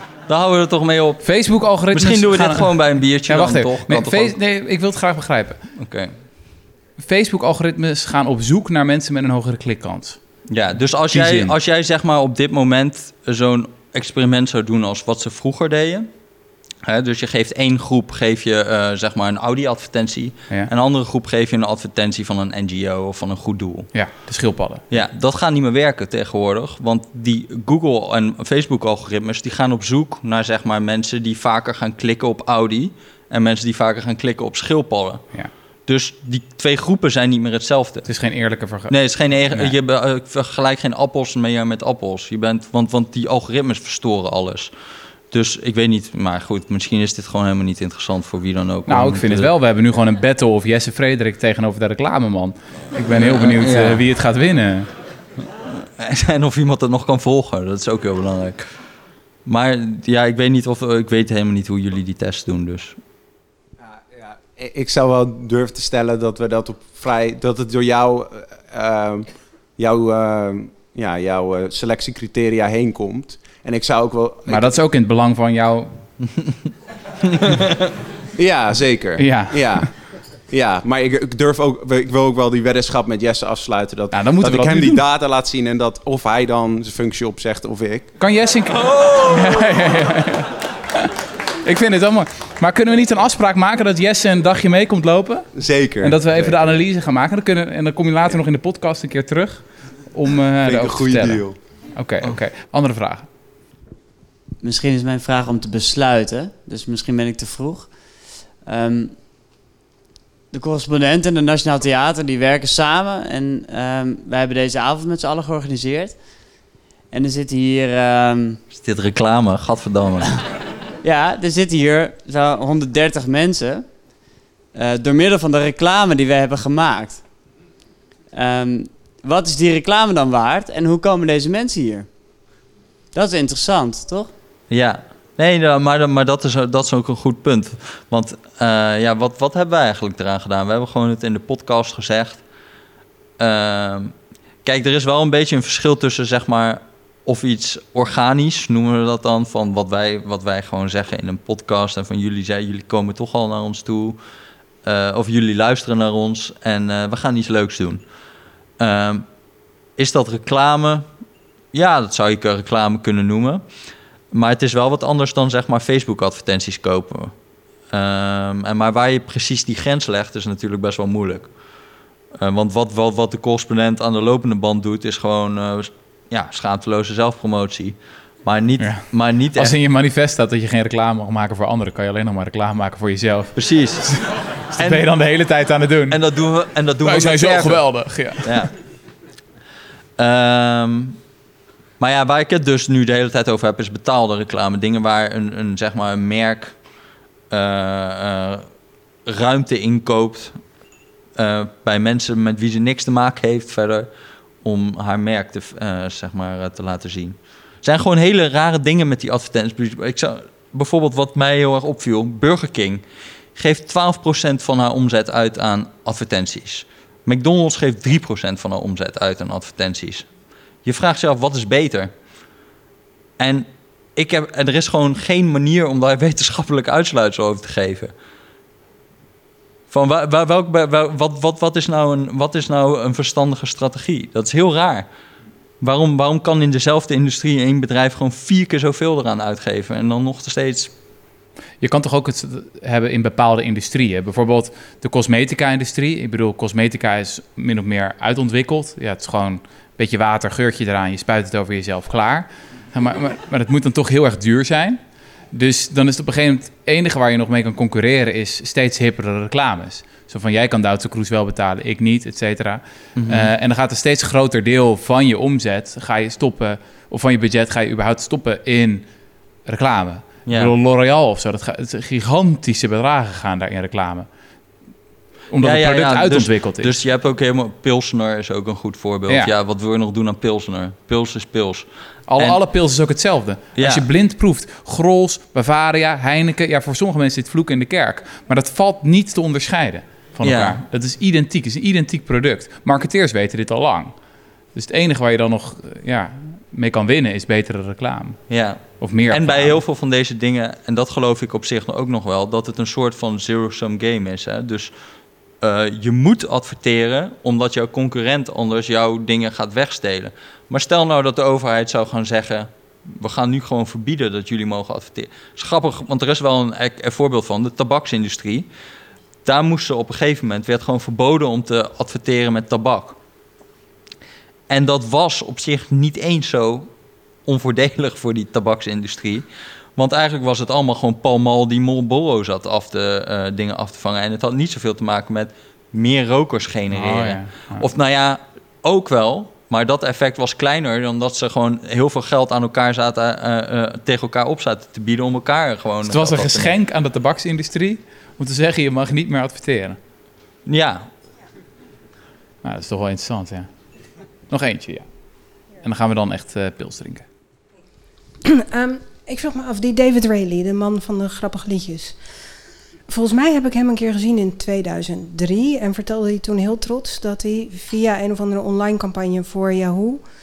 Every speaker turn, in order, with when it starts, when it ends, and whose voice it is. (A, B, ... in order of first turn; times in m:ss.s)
0:00.3-0:04.4 A
0:01.2-0:05.6 B
0:05.7-0:06.1 A
0:07.0-0:10.2 B
0:10.5-0:16.1 A
0:11.1-0:11.5 B
0:16.8-0:23.9 A
0:23.9-0:24.8 B
0:24.9-0:35.2 A
0:35.8-0:38.1 A
0:38.0-0:39.0 B
0:38.9-0:44.7 A
0:39.5-0:39.7 B
0:45.3-0:49.5 A
0:48.9-0:54.9 B
0:53.1-0:54.0 A
0:55.4-0:58.7 A
0:59.4-1:03.0 A
1:03.8-1:14.7 C
1:14.5-1:16.0 B
1:18.4-1:28.1 C
1:19.2-1:19.9 B
1:24.1-1:25.0 B
1:28.2-1:31.1 B
1:31.6-1:43.3 B
1:35.5-1:36.6 C
1:40.6-1:41.6 C
1:44.6-1:48.0 D
1:48.6-1:49.2 D
1:50.5-1:58.6 D
1:58.7-2:00.4 A
2:01.0-2:04.2 D
2:04.7-2:07.3 D
2:08.3-2:12.1 D
2:13.1-2:14.3 D
2:14.7-2:22.4 A
2:23.4-2:34.2 A
2:34.8-2:38.0 A
2:38.8-2:39.2 A
2:40.0-2:41.1 A
2:41.7-2:43.6 A
2:44.3-2:47.3 A
2:47.9-2:51.5 A
2:52.3-2:59.8 A
2:58.8-3:06.2 B
3:03.5-3:04.2 A
3:04.8-3:05.0 A
3:06.1-3:08.7 A
3:07.0-3:08.7 B
3:10.2-3:11.2 A
3:12.0-3:16.8 A
3:17.5-3:18.7 A
3:19.2-3:20.6 A
3:21.4-3:24.1 A
3:24.6-3:33.0 A
3:33.5-3:40.3 A
3:40.8-3:42.1 A
3:43.4-3:48.1 A
3:49.9-3:55.1 A
3:55.8-4:00.9 A
4:01.8-4:15.0 B
4:15.5-4:29.1 B
4:23.1-4:23.5 A
4:29.6-4:34.3 B
4:30.4-4:30.7 A
4:35.5-4:36.9 B
4:35.6-4:42.6 A
4:42.3-4:54.2 B
4:43.8-4:44.1 A
4:50.4-4:50.8 A
4:54.7-4:59.8 B
4:58.5-5:04.9 A
5:05.6-5:18.7 A
5:19.4-5:23.2 A
5:24.7-5:26.9 A
5:27.4-5:46.7 A
5:36.9-5:37.9 B
5:46.0-5:50.0 B
5:50.6-5:51.1 A
5:52.6-5:53.7 B
5:54.5-5:55.1 B
5:55.7-5:57.2 B
5:58.4-6:02.2 E
6:03.1-6:10.2 E